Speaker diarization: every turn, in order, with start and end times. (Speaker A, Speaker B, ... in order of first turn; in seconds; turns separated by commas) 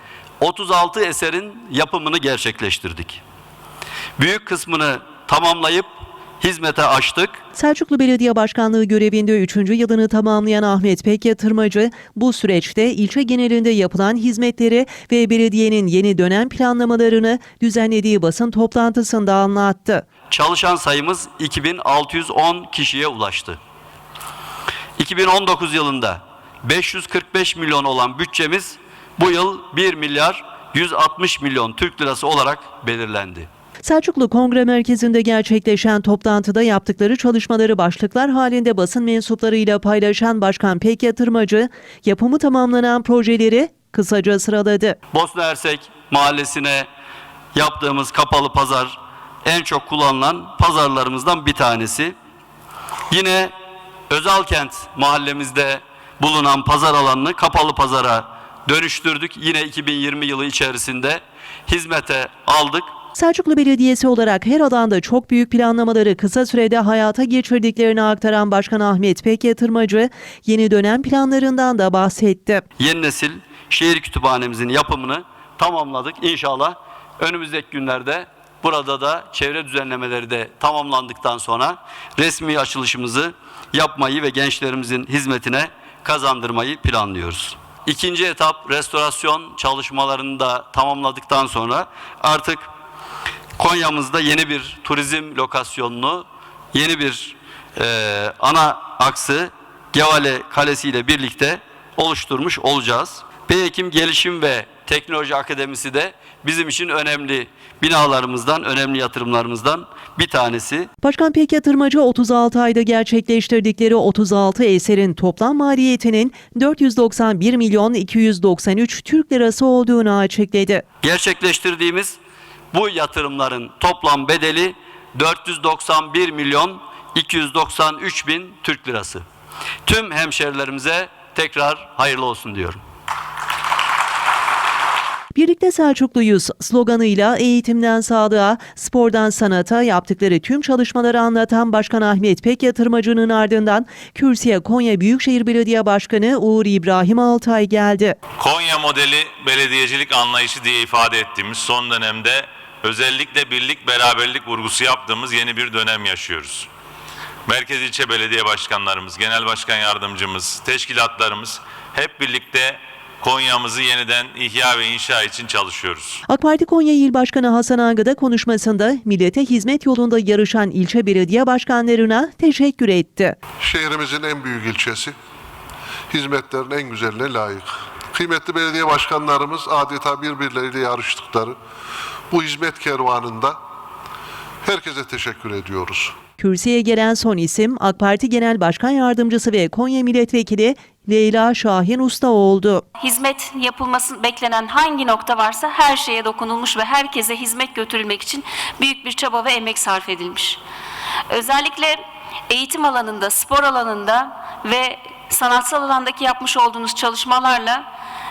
Speaker A: 0.4-3.2, Speaker A: 4.2-7.4, Speaker B: 7.5-20.0, Speaker A: 20.3-23.6, Speaker A: 25.0-33.5, Speaker B: 33.8-45.0, Speaker A: 45.1-46.9, Speaker A: 47.5-52.1, Speaker A: 53.1-53.5, Speaker A: 54.1-62.9, Speaker B: 63.1-72.6, Speaker A: 72.8-92.7, Speaker A: 93.6-110.9, Speaker B: 111.0-120.8, Speaker A: 121.0-122.2, Speaker A: 122.7-129.2, Speaker A: 129.8-132.8, Speaker B: 135.3-148.2, Speaker C: 148.4-156.7, Speaker C: 157.5-166.2, Speaker B: 166.3-173.3, Speaker D: 173.6-175.1, Speaker D: 176.1-181.5, Speaker D: 182.3-183.6, Speaker D: 184.6-186.1, Speaker B: 186.4-192.8, Speaker E: 193.0-200.6, Speaker E: 201.3-202.0, Speaker E: 202.5-207.8